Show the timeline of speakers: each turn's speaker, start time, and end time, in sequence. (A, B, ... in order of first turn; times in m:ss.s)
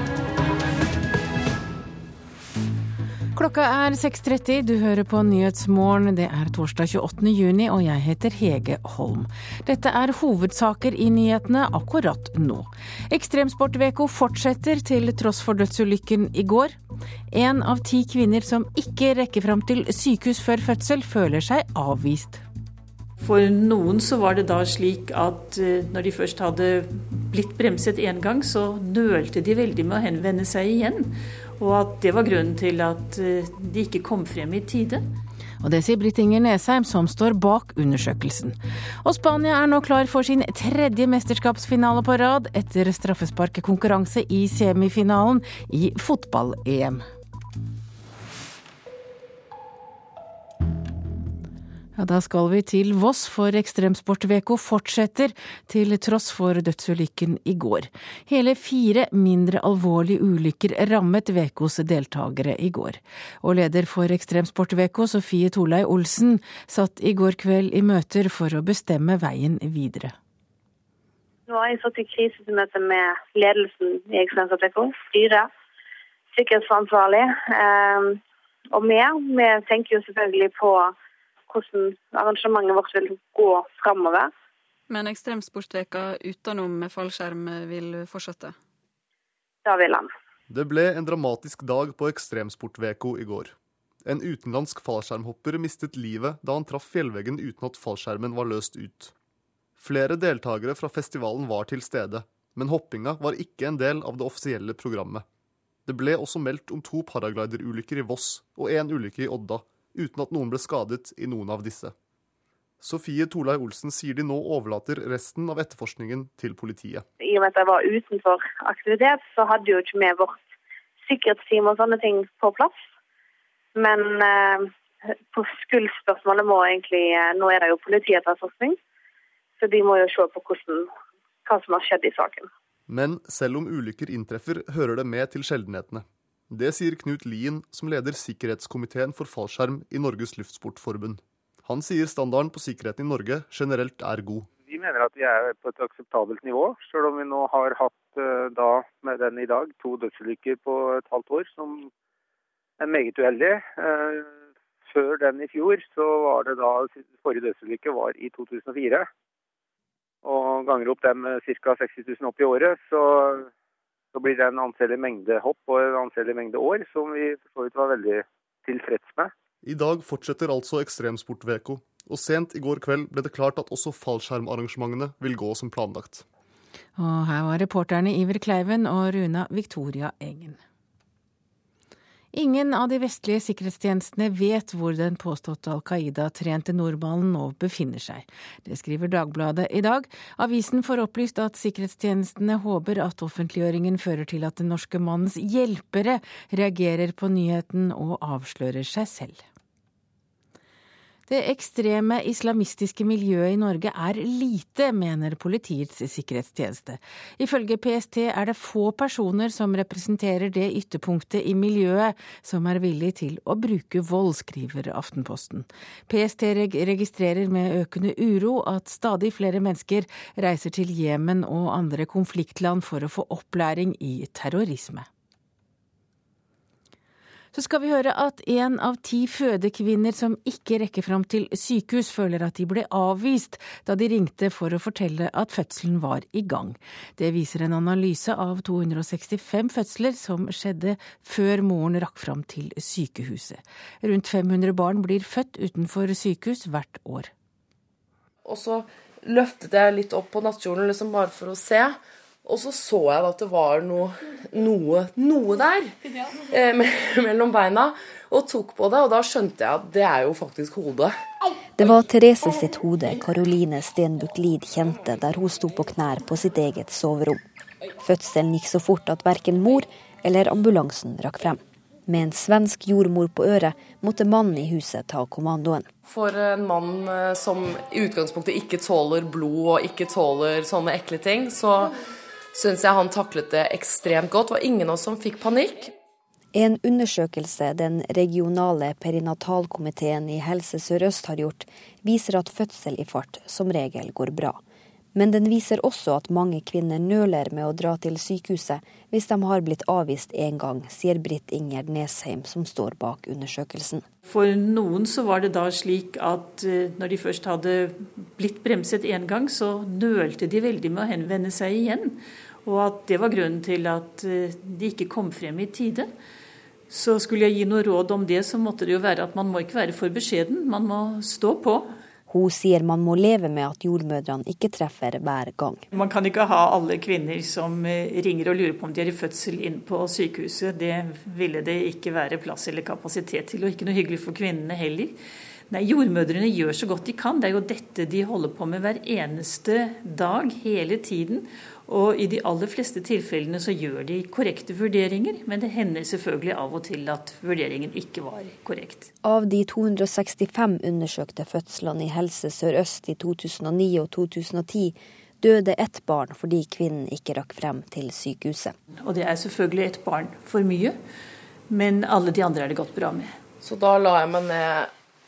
0:03.3-0:16.7 A
0:17.3-0:22.4 A
0:23.2-0:35.0 B
0:35.6-0:47.0 A
0:52.0-1:10.1 A
1:11.5-1:15.5 C
1:16.3-1:18.2 C
1:18.7-1:20.9 C
1:21.5-1:24.3 C
1:24.9-1:28.5 D
1:29.6-1:30.1 C
1:30.5-1:39.1 E
1:39.8-1:45.2 E
1:45.8-1:51.9 E
1:52.8-1:57.0 E
1:57.2-2:00.4 C
2:01.0-2:02.8 C
2:03.7-2:08.8 C
2:09.6-2:10.9 C
2:11.4-2:12.5 C
2:12.9-2:24.5 E
2:24.6-2:31.9 F
2:32.8-2:34.3 F
2:34.9-2:39.1 F
2:40.2-2:43.5 F
2:44.1-2:49.3 F
2:49.6-2:56.2 E
2:57.0-3:00.6 A
3:02.3-3:19.4 A
3:21.3-3:45.1 A
3:47.5-4:07.3 A
4:08.4-4:15.9 G
4:16.5-4:21.1 G
4:21.8-4:27.4 H
4:28.0-4:35.9 H
4:36.0-4:41.9 G
4:42.5-4:45.9 G
4:46.5-4:54.6 H
4:55.1-5:04.0 H
5:04.2-5:16.1 B
5:16.9-5:21.9 B
5:22.3-5:25.8 H
5:25.9-5:35.2 B
5:35.7-5:49.1 B
5:49.2-5:58.8 H
5:59.0-6:01.0 B
6:01.7-6:03.4 B
6:03.6-6:04.9 G